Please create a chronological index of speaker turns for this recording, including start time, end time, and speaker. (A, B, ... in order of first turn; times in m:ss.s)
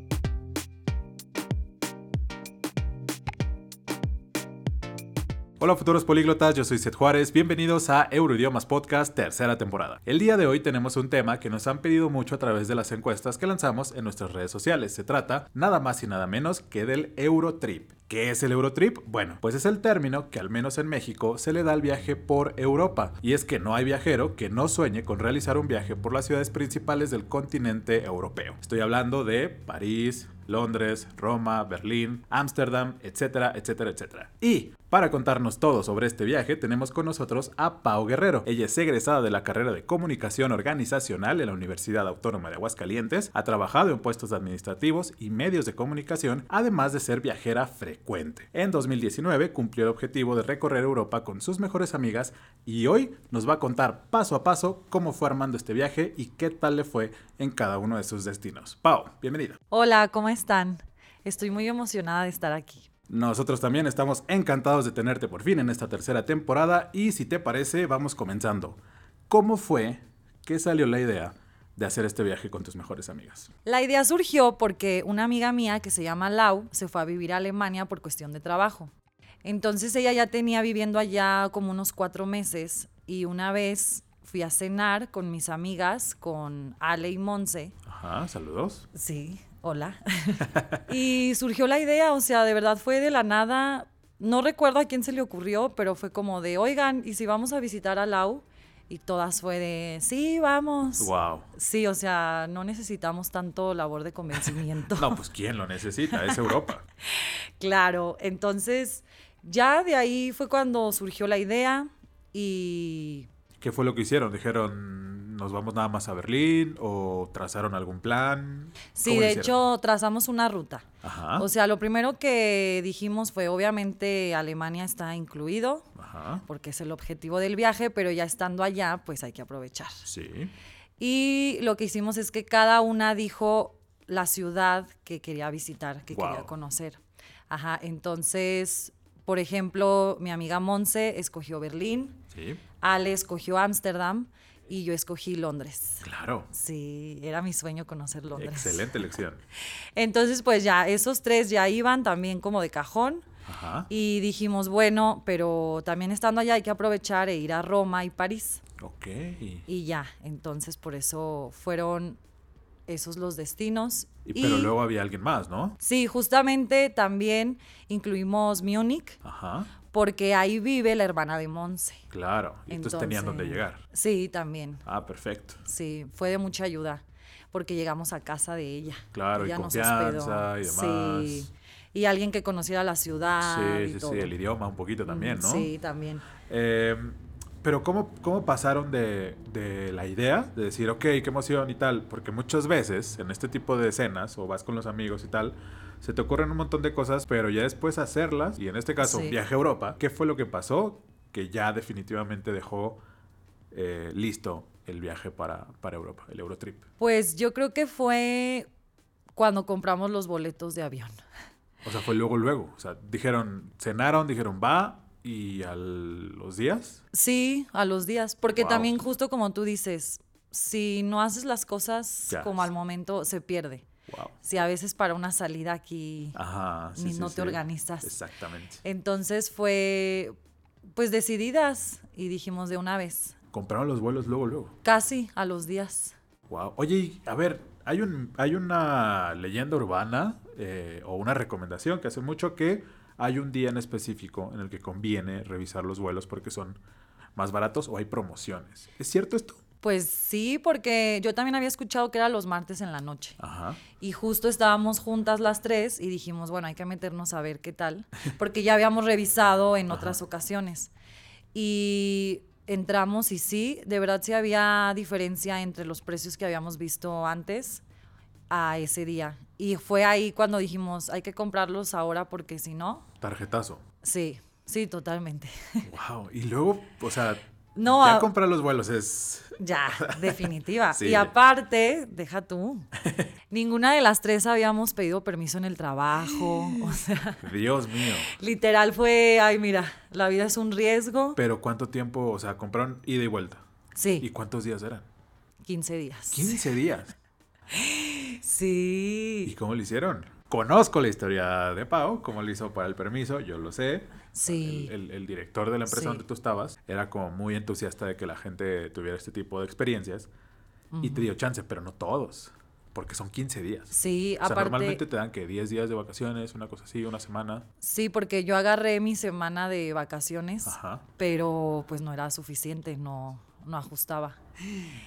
0:05.6-0:59.6 A
0:59.7-1:02.9 B
1:03.1-1:13.5 A
1:13.6-1:18.9 B
1:19.4-1:27.7 B
1:27.8-1:28.9 A
1:28.9-1:45.2 B
1:30.4-1:30.8 A
1:41.0-1:41.5 A
1:44.4-1:46.8 A
1:47.1-1:53.3 B
1:53.6-1:59.5 A
1:58.9-2:05.9 B
2:01.0-2:01.5 A
2:06.0-2:06.4 A
2:06.4-2:10.1 B
2:10.0-2:10.5 A
2:11.0-2:17.0 B
2:16.1-2:16.5 A
2:17.5-2:22.2 B
2:22.3-2:22.6 A
2:22.8-2:29.1 B
2:26.0-2:26.5 A
2:28.3-2:29.4 A
2:30.0-2:33.2 B
2:33.4-2:33.9 A
2:33.9-2:38.6 B
2:38.8-2:39.6 A
2:39.7-2:42.2 B
2:42.9-2:44.7 B
2:44.2-2:45.8 A
2:45.8-2:49.2 B
2:49.2-2:49.7 A
2:49.9-2:52.0 B
2:52.1-2:53.8 A
2:52.7-2:54.8 B
2:54.8-2:55.6 A
2:55.6-3:04.3 B
2:59.1-3:01.5 A
3:03.4-3:05.7 A
3:05.0-3:06.2 B
3:06.4-3:23.0 A
3:19.0-3:19.4 B
3:23.7-3:26.8 A
3:27.0-3:28.7 B
3:29.4-3:31.2 B
3:31.8-3:37.0 A
3:37.1-3:43.8 B
3:38.5-3:39.0 A
3:42.3-3:42.7 A
3:44.1-3:44.3 A
3:44.4-3:46.4 B
3:46.3-3:48.8 A
3:46.9-3:48.1 B
3:48.8-3:50.4 B
3:50.9-3:53.4 B
3:53.5-3:54.8 A
3:54.8-3:56.2 B
3:56.5-4:06.8 A
4:07.3-4:09.6 A
4:09.8-4:13.4 B
4:13.4-4:13.8 A
4:14.0-4:20.9 B
4:19.9-4:20.2 A
4:21.5-4:27.8 B
4:28.5-4:33.1 B
4:33.2-4:33.8 A
4:34.0-4:35.8 B
4:35.8-4:41.3 A
4:37.8-4:38.3 B
4:39.6-4:42.9 B
4:43.0-4:43.3 A
4:43.5-4:47.4 B
4:46.2-4:48.3 A
4:48.3-4:51.4 B
4:51.4-4:53.6 A
4:54.0-4:54.3 B
4:54.2-4:55.1 A
4:55.6-4:56.6 B
4:56.3-4:57.1 A
4:57.7-4:59.5 B
4:59.4-5:10.3 A
5:04.3-5:04.9 B
5:05.9-5:06.2 B
5:10.9-5:11.3 B
5:11.0-5:17.6 A
5:13.9-5:15.0 B
5:17.8-5:24.4 B
5:20.6-5:21.0 A